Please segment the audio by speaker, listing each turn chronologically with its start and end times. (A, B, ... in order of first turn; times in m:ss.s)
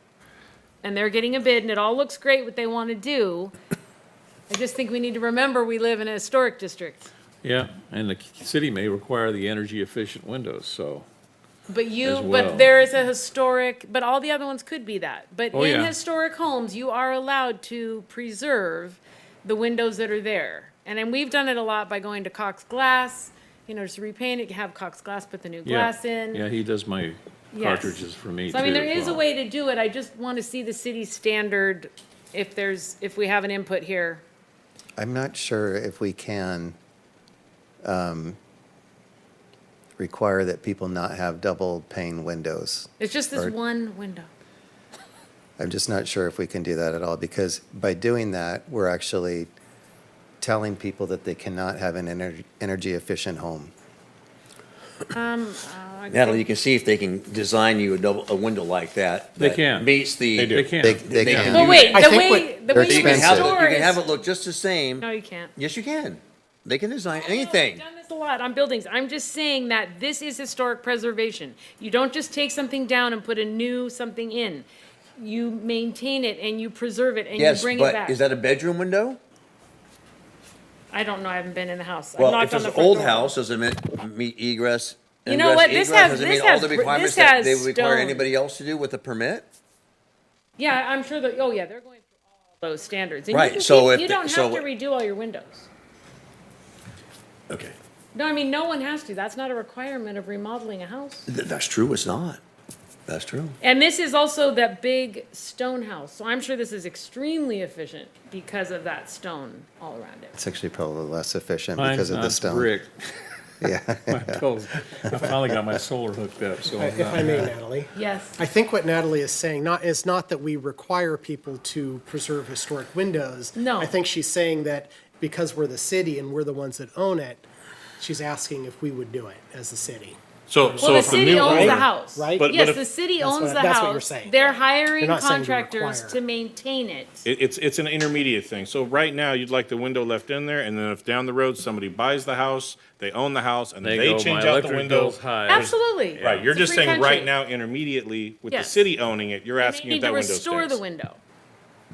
0:00.8-0:03.5 A
0:04.5-0:07.1 A
0:07.4-0:11.1 B
0:11.7-0:26.4 A
0:12.1-0:12.7 B
0:15.5-0:15.9 B
0:25.6-0:29.2 B
0:27.5-0:34.2 A
0:35.0-0:36.8 C
0:37.8-0:38.4 C
0:40.0-0:43.5 C
0:43.0-0:44.3 A
0:45.6-0:49.5 C
0:50.4-0:53.7 C
0:55.1-0:56.4 A
0:56.1-1:02.1 D
0:59.4-0:59.9 B
1:00.3-1:00.8 E
1:00.6-1:01.5 B
1:00.8-1:01.9 C
1:01.5-1:04.0 A
1:01.9-1:02.6 F
1:02.7-1:03.6 C
1:02.8-1:07.8 D
1:05.0-1:05.5 A
1:07.2-1:18.2 A
1:17.4-1:19.2 D
1:20.9-1:23.3 A
1:22.2-1:29.5 D
1:25.2-1:28.3 A
1:30.6-1:35.7 A
1:33.3-1:34.7 D
1:37.5-1:37.8 D
1:38.1-1:41.3 A
1:41.3-1:42.4 D
1:43.1-1:43.6 D
1:43.6-1:50.4 A
1:50.4-1:52.7 C
1:51.8-1:53.0 B
1:53.6-1:54.4 C
1:54.1-1:57.5 B
1:55.1-1:55.5 C
1:56.8-2:07.5 F
1:57.9-1:58.4 A
2:03.6-2:03.9 A
2:08.0-2:12.5 F
2:10.5-2:12.8 E
2:10.8-2:17.3 A
2:13.2-2:16.2 F
2:17.2-2:30.8 E
2:23.8-2:25.7 B
2:25.5-2:27.3 A
2:28.5-2:28.9 A
2:29.6-2:31.2 A